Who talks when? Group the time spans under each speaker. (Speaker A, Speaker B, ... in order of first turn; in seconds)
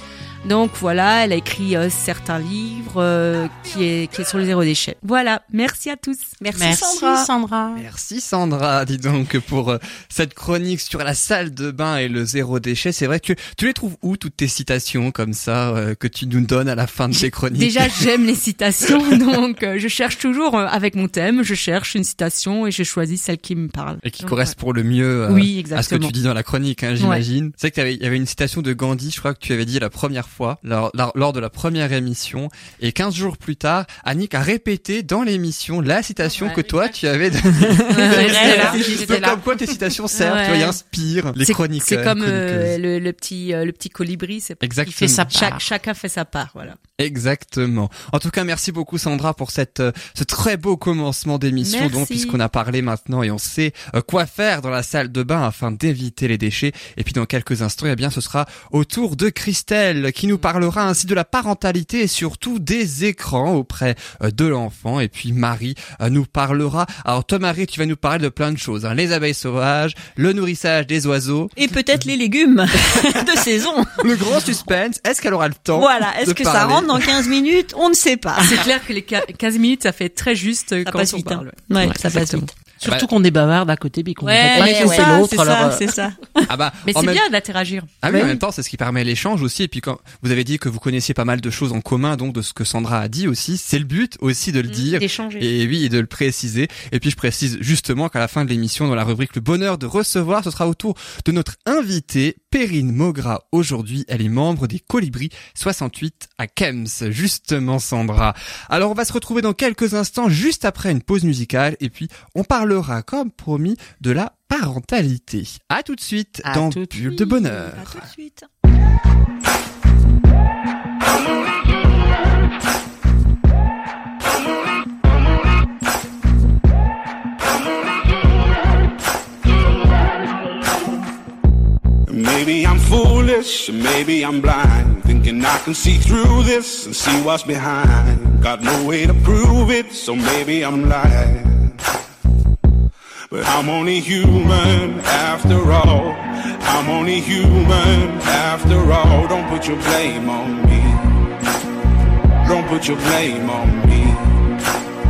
Speaker A: 0.4-6.3, 17.1-24.5, 25.3-26.1, 37.9-39.4, 40.1-40.8, 41.4-46.8, 51.6-52.4, 78.4-82.5, 84.2-85.2, 86.8-88.4, 94.7-95.5
Speaker B: 6.4-7.3, 37.6-39.3, 71.5-74.7, 75.7-78.6, 80.8-82.5, 84.5-86.5, 117.1-118.5
Speaker C: 6.5-7.8, 36.4-36.9, 38.3-38.7, 44.9-45.7, 82.8-85.9, 116.4-117.2
Speaker D: 7.7-18.0, 24.0-42.8, 44.6-45.4, 47.0-71.5, 72.9-73.2, 74.0-77.4, 82.8-83.1, 86.5-87.2, 88.0-118.1
Speaker E: 132.1-141.8, 143.3-151.1, 152.4-154.3